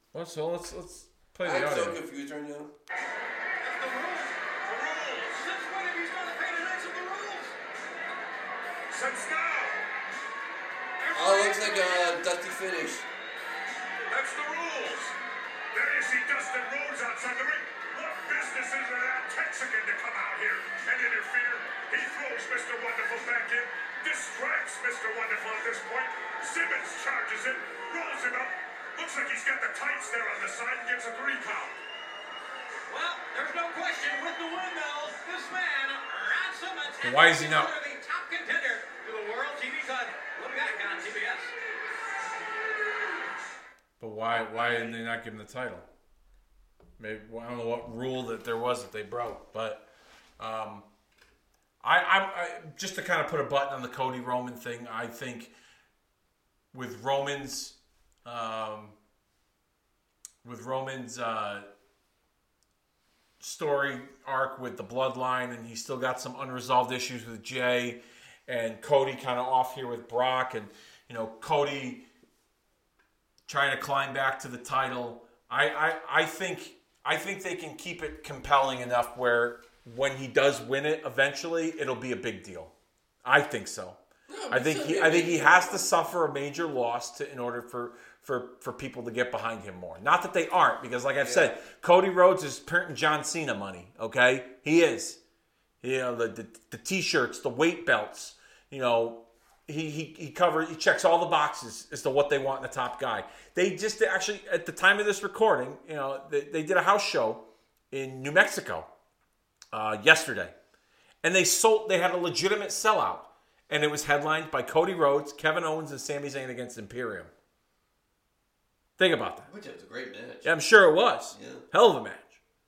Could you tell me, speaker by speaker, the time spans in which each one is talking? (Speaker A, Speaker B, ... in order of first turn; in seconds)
Speaker A: 0.1-2.0, 37.0-37.7, 44.0-45.9, 47.0-49.9, 50.4-50.9, 51.8-55.5, 56.7-58.9, 60.4-61.7, 63.4-72.0, 73.5-82.7, 83.2-84.0, 84.5-95.2, 95.8-108.9, 109.7-110.5, 111.2-117.3, 119.0-119.5, 120.4-122.4
Speaker B: 1.4-2.7, 11.1-13.1, 84.3-85.9, 91.2-91.5, 119.5-120.5, 121.3-121.6
Speaker C: 3.6-4.4, 5.3-7.6, 11.0-12.0, 32.9-41.5
Speaker D: 4.6-5.5, 8.9-9.8, 14.1-15.1, 15.7-31.8